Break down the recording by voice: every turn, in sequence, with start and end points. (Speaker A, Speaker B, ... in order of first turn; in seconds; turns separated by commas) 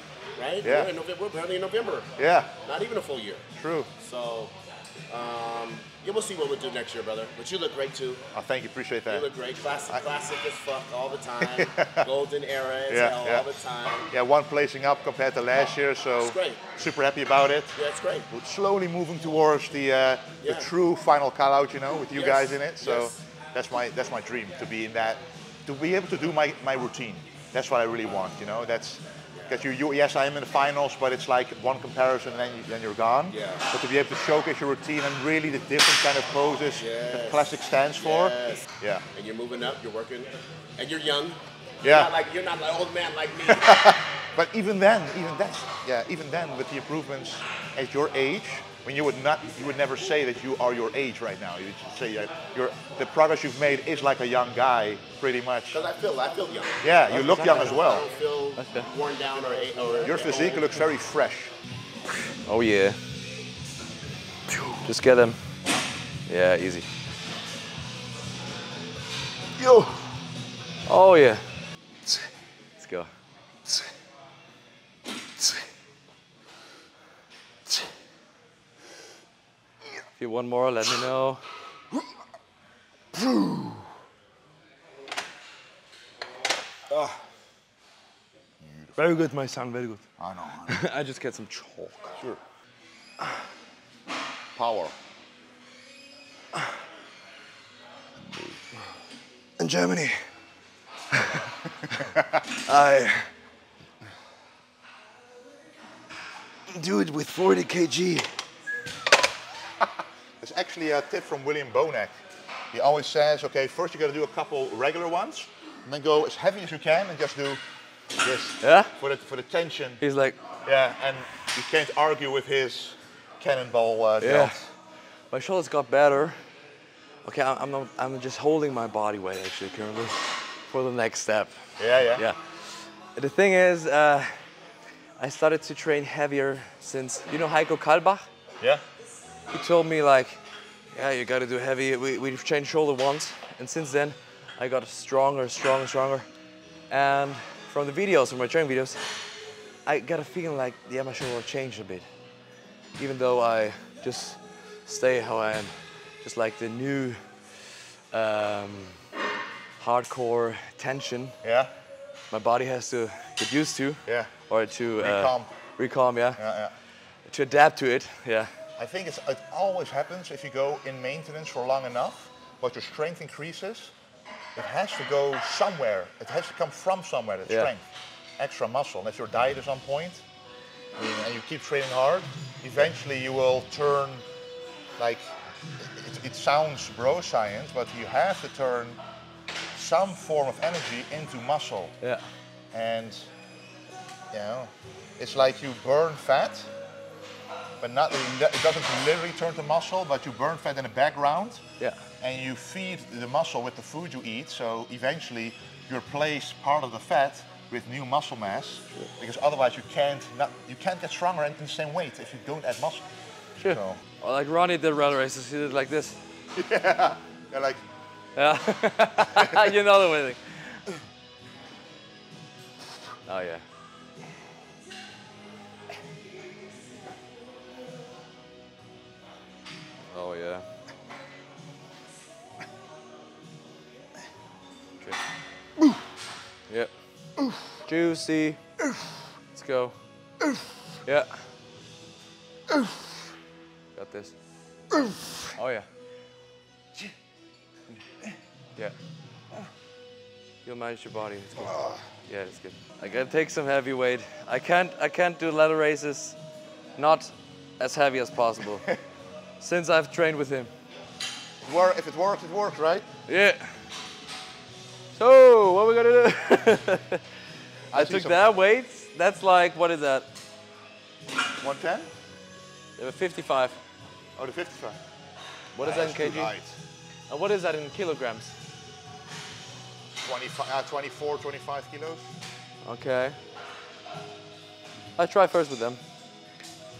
Speaker A: 0.4-2.1, Speaker B: 0.6-0.9, Speaker B: 2.2-2.5, Speaker A: 2.6-3.5, Speaker B: 3.5-3.9, Speaker A: 4.0-4.5, Speaker A: 5.1-8.2, Speaker B: 8.3-9.3, Speaker A: 9.1-14.1, Speaker B: 11.4-12.1, Speaker B: 12.9-13.4, Speaker B: 14.1-17.8, Speaker A: 16.2-16.6, Speaker A: 17.8-18.3, Speaker B: 18.3-39.0, Speaker A: 22.1-23.1, Speaker A: 33.3-33.6, Speaker A: 36.8-43.8, Speaker B: 41.8-42.1, Speaker B: 43.5-55.8, Speaker A: 55.7-60.7, Speaker B: 56.8-58.1, Speaker C: 57.2-57.8, Speaker C: 58.6-58.9, Speaker B: 60.0-61.5, Speaker C: 62.4-63.0, Speaker C: 64.7-65.4, Speaker C: 66.3-66.9, Speaker C: 70.8-71.4, Speaker C: 72.8-73.1, Speaker C: 80.2-81.4, Speaker B: 88.6-89.0, Speaker C: 89.0-90.0, Speaker B: 90.2-90.8, Speaker C: 90.7-92.2, Speaker B: 94.5-94.9, Speaker C: 99.6-100.2, Speaker C: 101.1-101.4, Speaker C: 102.6-103.3, Speaker C: 106.7-108.3, Speaker B: 110.4-112.1, Speaker B: 112.7-117.6, Speaker B: 118.2-120.0, Speaker C: 118.6-118.9, Speaker C: 120.0-120.4, Speaker B: 120.6-124.7, Speaker C: 124.2-124.5, Speaker C: 125.3-126.4, Speaker C: 127.2-134.4, Speaker B: 131.8-132.2, Speaker C: 135.2-138.3, Speaker C: 139.5-140.4, Speaker C: 140.9-146.3, Speaker C: 146.9-149.1, Speaker C: 149.8-152.1, Speaker C: 153.0-159.0, Speaker C: 159.8-161.3, Speaker B: 161.4-161.7, Speaker C: 162.3-166.4, Speaker B: 164.1-164.3, Speaker B: 165.0-165.5, Speaker B: 166.4-166.7, Speaker C: 167.3-168.5, Speaker B: 168.8-173.9, Speaker B: 174.6-177.8, Speaker B: 178.4-180.2, Speaker B: 181.0-184.2, Speaker B: 185.0-189.0, Speaker B: 189.7-191.9, Speaker B: 192.7-193.3, Speaker B: 194.3-196.7, Speaker B: 197.8-201.6, Speaker B: 202.2-213.0, Speaker B: 213.6-214.0, Speaker C: 213.6-216.2, Speaker B: 216.5-217.8, Speaker C: 218.3-220.8, Speaker C: 223.2-223.6, Speaker C: 230.1-230.6, Speaker C: 237.8-238.6, Speaker C: 239.5-239.9, Speaker C: 241.0-241.4, Speaker C: 243.9-244.3, Speaker C: 245.6-245.8, Speaker C: 250.6-256.4, Speaker B: 251.7-252.0, Speaker C: 257.0-258.9, Speaker C: 259.6-260.7, Speaker B: 261.6-263.1, Speaker C: 263.3-263.7, Speaker C: 265.2-267.2, Speaker B: 267.9-268.5, Speaker C: 267.9-270.3, Speaker B: 271.6-272.1, Speaker C: 273.0-273.8, Speaker B: 274.4-275.0, Speaker C: 275.7-276.5, Speaker B: 275.8-276.7, Speaker C: 277.3-278.5, Speaker B: 280.1-282.3, Speaker C: 282.8-283.4, Speaker C: 285.2-286.0